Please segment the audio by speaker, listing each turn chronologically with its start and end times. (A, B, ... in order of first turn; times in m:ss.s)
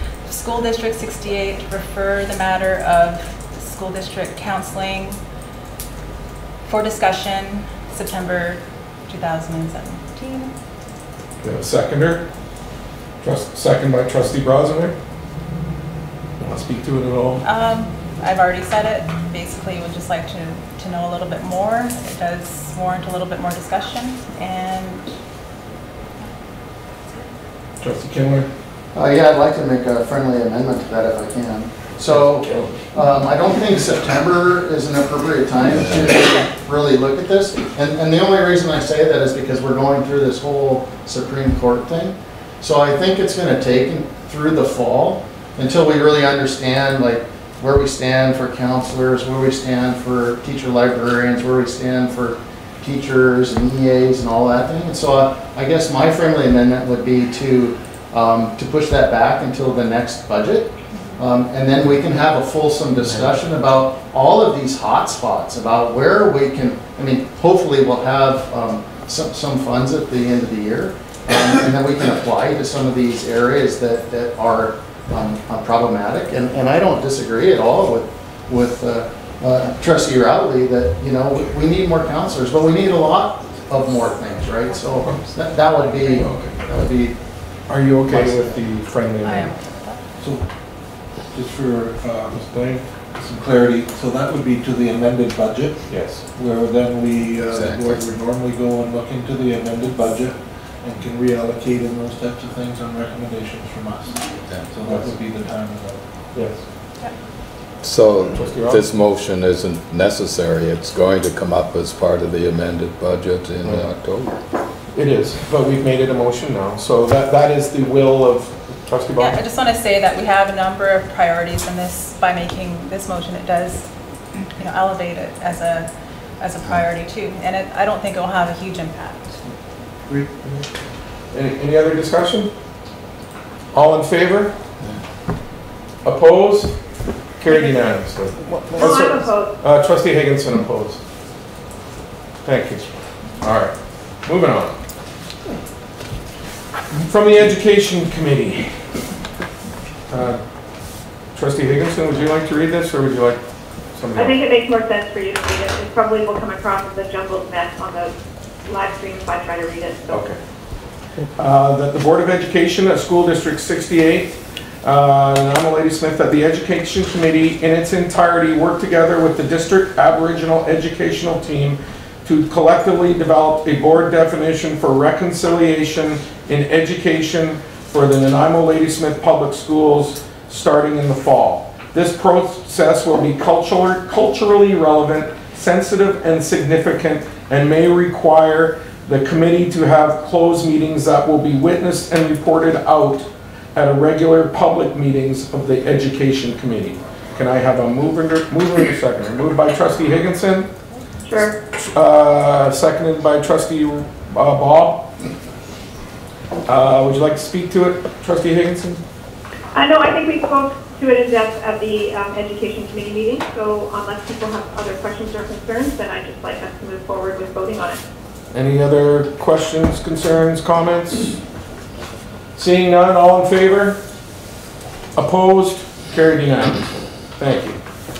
0:00.3-0:05.2 A
0:06.6-0:10.5 A
0:11.4-0:12.3 B
0:13.2-0:15.0 B
0:16.4-0:17.4 B
0:17.4-0:25.1 A
0:27.8-0:28.5 B
0:28.9-1:27.2 C
1:26.2-1:26.5 B
1:27.7-1:29.5 B
1:29.2-1:30.0 A
1:30.2-1:30.4 D
1:31.3-1:32.5 D
1:32.4-1:32.8 B
1:33.1-1:46.0 D
1:35.9-1:36.2 B
1:37.5-1:38.1 E
1:47.8-1:54.4 E
1:48.3-1:48.8 B
1:53.6-1:53.9 B
1:54.9-1:59.4 B
1:59.2-2:03.9 A
2:04.6-2:05.9 A
2:06.4-2:09.4 A
2:10.1-2:10.7 B
2:11.3-2:12.5 B
2:13.7-2:14.5 B
2:16.0-2:16.8 B
2:17.4-2:21.0 B
2:18.8-2:19.5 F
2:22.4-2:22.9 B
2:23.4-2:24.8 B
2:27.0-2:28.8 B
2:30.1-2:30.4 B
2:31.3-2:33.4 B
2:33.9-2:34.4 B
2:34.2-2:38.1 F
2:38.6-2:40.2 F
2:40.1-2:40.4 B
2:41.4-3:20.7 B
3:21.2-3:21.6 F
3:21.8-3:25.1 B
3:26.6-3:29.0 B
3:29.7-3:38.0 F
3:38.5-3:41.4 B
3:42.6-3:44.0 B
3:45.2-3:47.8 B